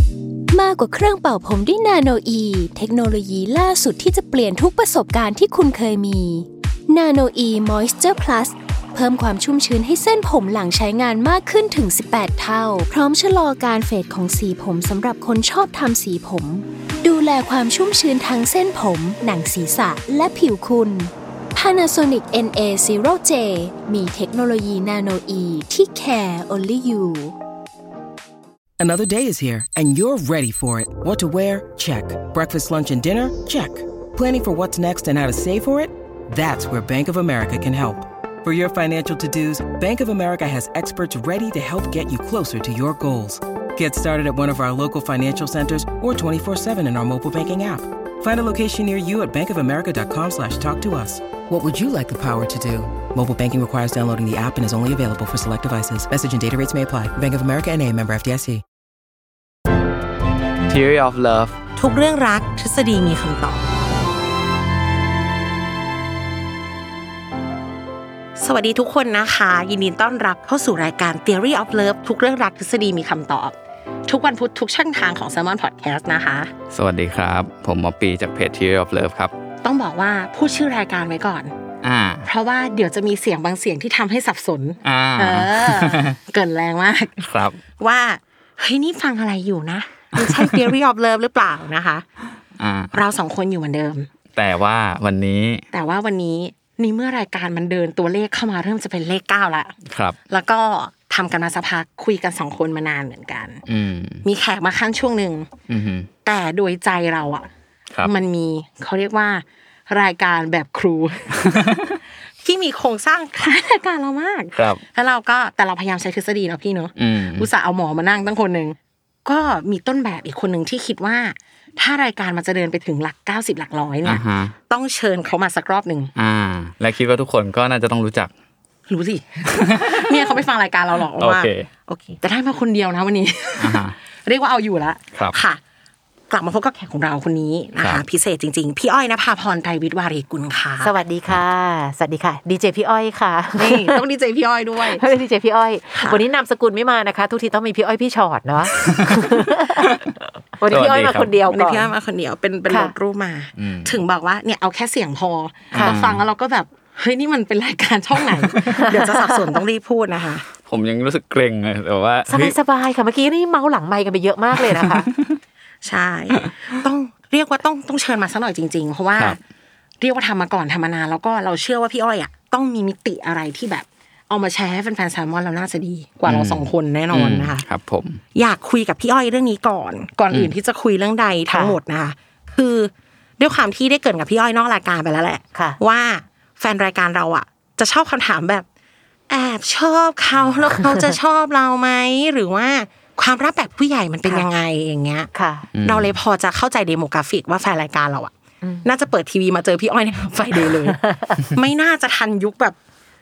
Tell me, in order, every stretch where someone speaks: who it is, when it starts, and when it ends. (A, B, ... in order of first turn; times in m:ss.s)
0:00.5-0:27.4 A
0:28.8-0:58.6 B
1:00.7-1:01.6 C
1:01.8-1:03.6 D
1:08.4-1:13.5 D
1:14.1-1:16.5 D
1:16.7-1:19.3 C
1:19.6-1:21.5 D
1:21.8-1:22.2 C
1:22.2-1:27.2 D
1:24.8-1:26.1 C
1:27.2-1:27.6 C
1:27.8-1:32.0 D
1:30.2-1:30.5 C
1:32.6-1:32.9 C
1:32.9-1:34.1 D
1:34.4-1:35.6 C
1:35.7-1:39.7 D
1:39.9-1:40.2 C
1:40.3-1:43.6 D
1:43.7-1:44.2 C
1:44.2-1:45.5 D
1:45.7-1:46.1 C
1:46.2-1:47.5 D
1:48.0-1:51.6 D
1:51.4-1:51.8 C
1:52.4-2:06.1 D
1:54.6-1:54.8 C
1:57.0-1:57.5 C
2:04.0-2:04.5 C
2:06.2-2:08.3 C
2:08.9-2:15.6 D
2:09.7-2:10.4 C
2:11.2-2:11.7 C
2:13.6-2:14.0 C
2:16.3-2:21.0 D
2:20.8-2:24.0 E
2:23.6-2:25.0 D
2:24.9-2:30.0 E
2:26.0-2:26.2 D
2:28.8-2:30.1 C
2:30.6-2:31.9 E
2:30.7-2:31.3 C
2:31.5-2:40.4 D
2:32.7-2:32.9 E
2:33.6-2:34.0 C
2:35.8-2:36.2 C
2:38.8-2:39.4 E
2:40.7-2:42.6 C
2:42.3-2:45.1 E
2:45.8-2:49.4 D
2:50.0-2:57.6 D
2:56.3-2:58.2 C
2:58.3-3:08.6 D
3:01.5-3:01.8 E
3:05.5-3:05.8 E
3:09.3-3:15.3 D
3:15.3-3:15.7 E
3:15.7-3:16.2 C
3:15.8-3:18.3 D
3:18.6-3:18.9 E
3:18.8-3:22.8 D
3:20.8-3:21.5 E